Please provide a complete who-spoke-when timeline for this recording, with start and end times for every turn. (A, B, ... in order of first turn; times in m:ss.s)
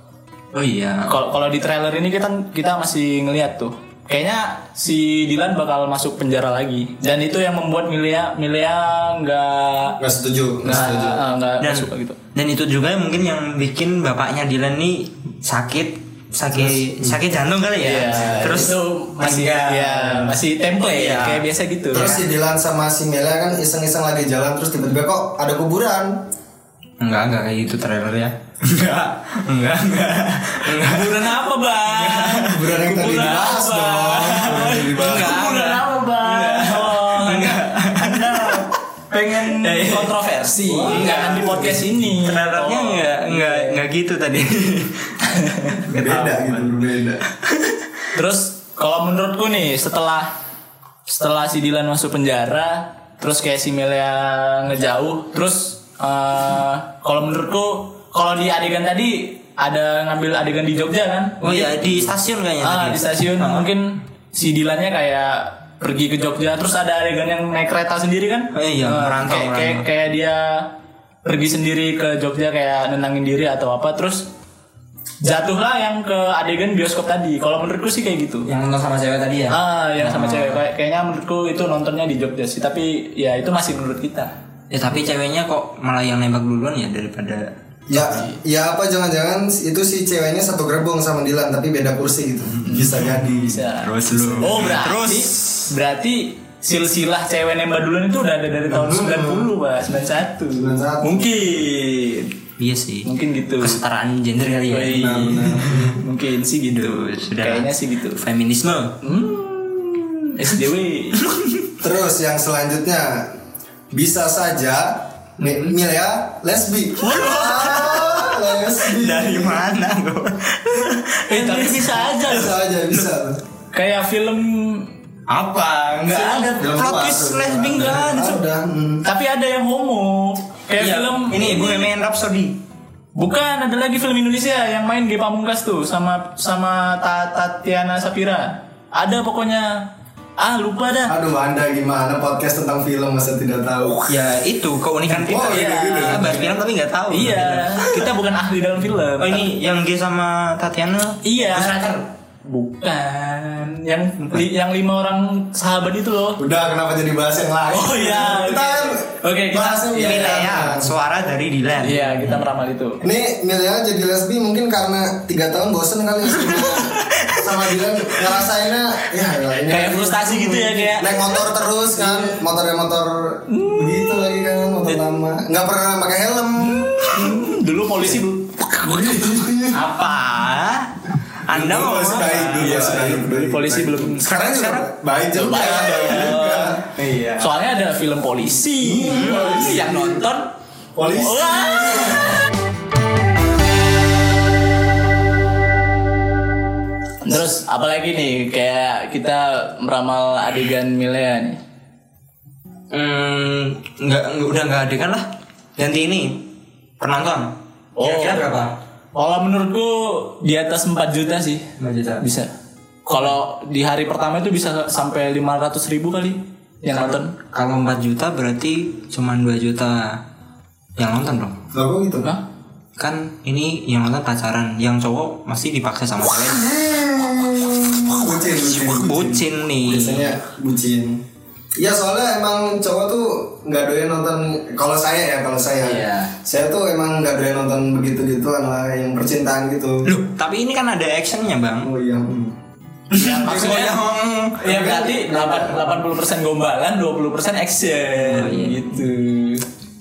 0:00.5-0:01.1 A
0:01.1-0:10.0 B
0:10.0-0:11.2 C
0:10.6-0:12.2 B
0:11.6-0:22.2 A
0:16.5-0:17.2 C
0:17.8-0:22.2 B
0:21.9-0:26.2 C
0:27.0-0:33.6 A
0:30.7-0:43.8 B
0:32.5-0:35.4 C
0:34.2-0:38.7 A
0:39.4-0:40.2 A
0:40.6-0:41.8 C
0:40.8-0:45.2 A
0:45.3-0:45.8 B
0:45.7-0:46.6 A
0:45.9-0:47.2 C
0:47.5-0:47.8 A
0:48.1-0:50.3 B
0:51.1-1:01.8 B
1:01.4-1:03.7 A
1:02.6-1:10.7 B
1:08.5-1:09.9 A
1:11.2-1:14.3 B
1:15.2-1:18.5 B
1:18.5-1:20.6 A
1:19.5-1:24.3 B
1:24.7-1:28.1 A
1:27.9-1:33.6 C
1:28.0-1:28.4 B
1:32.7-1:42.3 B
1:32.8-1:33.1 A
1:33.8-1:35.7 A
1:38.7-1:39.5 C
1:40.6-1:41.2 C
1:42.6-1:43.1 A
1:43.0-1:43.8 B
1:43.6-1:45.9 A
1:44.7-1:48.2 B
1:45.0-1:46.0 C
1:46.7-1:49.0 A
1:49.0-1:51.2 B
1:51.2-1:51.7 A
1:51.8-1:53.2 C
1:53.9-1:59.7 C
1:57.0-2:02.2 A
2:01.3-2:02.6 B
2:02.2-2:03.4 C
2:03.7-2:04.9 B
2:05.3-2:08.4 A
2:06.1-2:09.0 C
2:09.0-2:11.9 B
2:10.8-2:12.6 A
2:13.2-2:19.9 B
2:20.4-2:21.2 B
2:21.1-2:24.0 C
2:24.1-2:28.1 A
2:25.1-2:26.4 C
2:25.4-2:26.5 B
2:27.1-2:29.5 B
2:29.2-2:32.1 A
2:31.2-2:31.8 B
2:32.4-2:36.4 B
2:36.4-2:40.9 C
2:37.7-2:40.3 B
2:39.9-2:42.4 A
2:41.8-2:43.0 B
2:43.0-2:57.6 C
2:46.4-2:48.4 A
2:49.7-2:52.4 B
2:53.5-2:54.1 B
2:56.6-2:59.8 B
2:59.3-2:59.6 C
2:59.7-3:00.9 A
3:01.5-3:03.2 A
3:01.5-3:06.8 C
3:02.6-3:04.3 B
3:04.2-3:04.9 A
3:05.4-3:10.5 B
3:07.0-3:07.5 A
3:08.8-3:10.2 C
3:11.0-3:12.4 C
3:11.1-3:12.5 B
3:17.2-3:21.6 B
3:22.9-3:25.2 A
3:25.8-3:26.5 A
3:27.0-3:28.7 A
3:28.0-3:28.5 B
3:29.2-3:31.7 B
3:31.8-3:32.2 A
3:32.2-3:32.5 B
3:33.1-3:37.4 B
3:36.9-3:40.2 A
3:41.0-3:41.6 A
3:41.7-3:42.3 C
3:43.0-3:46.7 A
3:46.2-3:51.2 C
3:48.5-3:50.4 A
3:51.8-4:00.1 C
3:55.8-3:56.3 A
4:00.0-4:01.9 A
4:01.8-4:02.5 C
4:03.1-4:04.6 A
4:03.2-4:04.0 B
4:03.2-4:03.9 C
4:04.6-4:09.6 B
4:04.6-4:06.0 C
4:08.1-4:08.8 A